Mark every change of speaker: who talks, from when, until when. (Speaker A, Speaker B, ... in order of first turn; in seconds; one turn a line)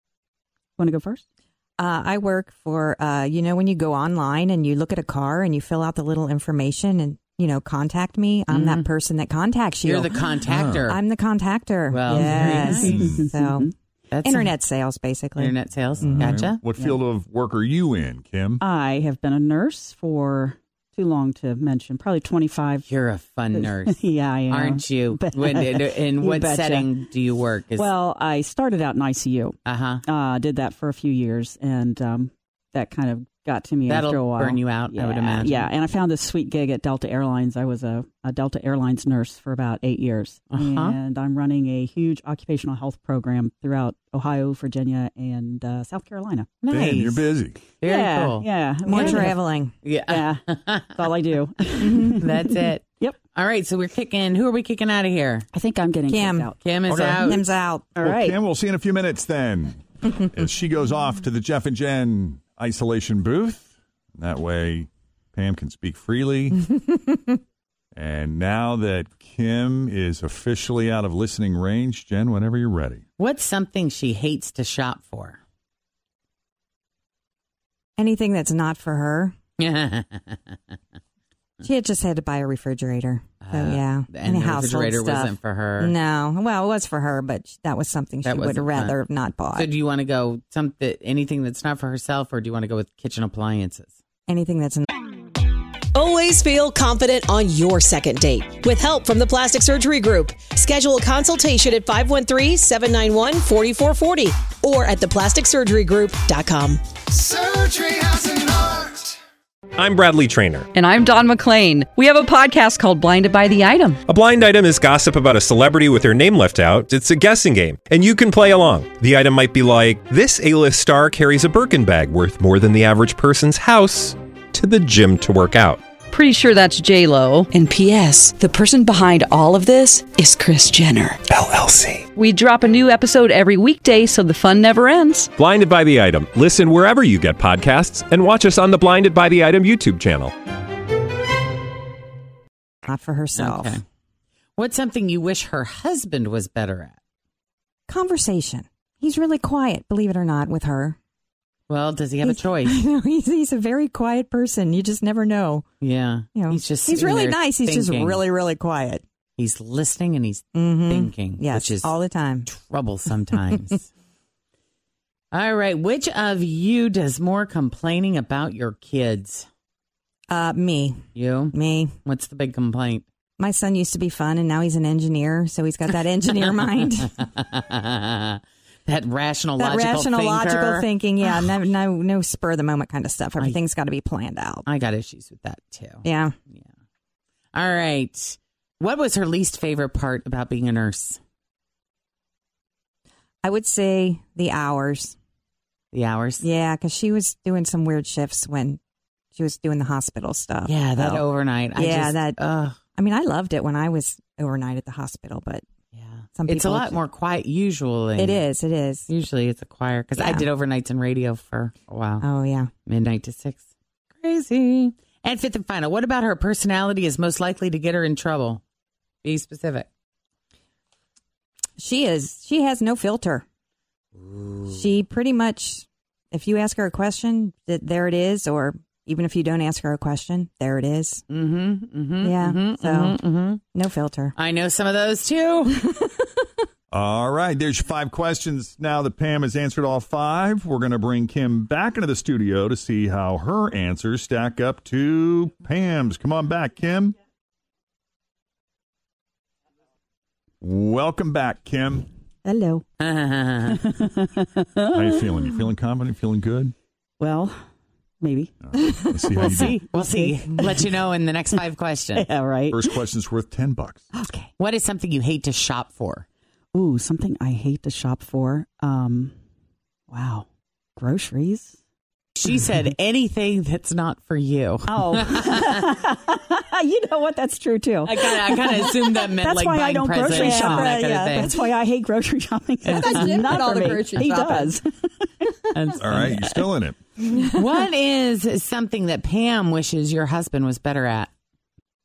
Speaker A: 0.8-1.2
Speaker B: 1.8-10.3
Speaker C: 8.5-8.9
Speaker C: 9.8-11.0
Speaker D: 10.5-10.9
Speaker B: 10.9-13.7
Speaker C: 11.9-13.2
Speaker A: 12.1-13.7
Speaker D: 12.9-13.2
Speaker C: 14.1-14.6
Speaker B: 14.2-15.5
Speaker C: 15.4-16.6
Speaker D: 16.0-18.6
Speaker A: 18.6-22.9
Speaker C: 22.9-27.9
Speaker A: 23.5-27.0
Speaker A: 27.8-46.5
Speaker C: 29.7-30.0
Speaker C: 33.9-35.7
Speaker C: 40.5-41.0
Speaker C: 46.6-49.3
Speaker D: 46.7-47.6
Speaker A: 47.8-49.4
Speaker B: 48.9-49.7
Speaker C: 49.8-50.9
Speaker A: 50.1-53.2
Speaker B: 51.8-52.2
Speaker C: 52.2-55.5
Speaker A: 55.5-58.4
Speaker B: 56.1-57.9
Speaker C: 56.6-57.4
Speaker D: 58.0-66.7
Speaker D: 68.0-73.0
Speaker C: 73.2-75.4
Speaker B: 78.0-79.3
Speaker C: 79.6-80.4
Speaker B: 81.6-89.7
Speaker C: 83.4-86.0
Speaker C: 88.2-89.0
Speaker C: 89.5-93.9
Speaker B: 94.3-94.9
Speaker E: 96.0-108.9
Speaker F: 109.8-110.7
Speaker G: 110.7-114.0
Speaker F: 114.1-125.8
Speaker G: 126.1-131.2
Speaker G: 132.1-135.3
Speaker F: 135.4-140.3
Speaker B: 142.8-143.8
Speaker C: 143.4-143.8
Speaker C: 144.6-147.0
Speaker B: 147.9-151.0
Speaker C: 151.7-152.8
Speaker B: 152.2-155.7
Speaker C: 155.8-158.2
Speaker B: 156.3-159.0
Speaker C: 159.4-163.9
Speaker B: 160.6-162.5
Speaker C: 165.3-169.5
Speaker B: 170.3-171.9
Speaker C: 171.2-173.1
Speaker B: 173.4-177.2
Speaker C: 177.2-180.9
Speaker B: 179.6-184.7
Speaker C: 184.7-186.6
Speaker B: 186.0-186.3
Speaker C: 187.5-191.2
Speaker B: 193.4-195.2
Speaker C: 195.9-196.4
Speaker B: 196.4-198.8
Speaker B: 199.3-202.4
Speaker C: 200.7-202.8
Speaker B: 203.0-205.6
Speaker C: 205.9-208.5
Speaker B: 206.3-207.0
Speaker B: 208.2-209.1
Speaker C: 209.1-212.3
Speaker B: 210.2-210.5
Speaker B: 212.2-212.7
Speaker C: 212.9-213.7
Speaker C: 214.2-218.6
Speaker C: 219.2-219.9
Speaker B: 221.8-223.4
Speaker C: 224.2-225.0
Speaker B: 224.7-231.2
Speaker C: 231.3-233.6
Speaker B: 232.2-233.2
Speaker B: 233.7-234.3
Speaker C: 234.4-235.8
Speaker D: 236.9-247.2
Speaker D: 250.6-252.1
Speaker A: 252.4-252.8
Speaker C: 253.0-253.8
Speaker A: 253.8-255.5
Speaker D: 254.9-256.8
Speaker A: 257.2-257.6
Speaker A: 258.2-261.0
Speaker D: 258.7-259.8
Speaker C: 259.4-262.3
Speaker A: 262.1-263.0
Speaker D: 262.7-264.1
Speaker A: 264.1-264.5
Speaker C: 264.6-266.2
Speaker A: 266.7-269.3
Speaker A: 270.1-270.5
Speaker A: 271.0-271.8
Speaker C: 272.4-275.6
Speaker A: 274.9-285.5
Speaker C: 278.1-281.6
Speaker B: 280.3-281.5
Speaker C: 282.9-283.4
Speaker B: 282.9-284.7
Speaker C: 285.8-286.6
Speaker D: 286.0-287.0
Speaker C: 287.5-291.3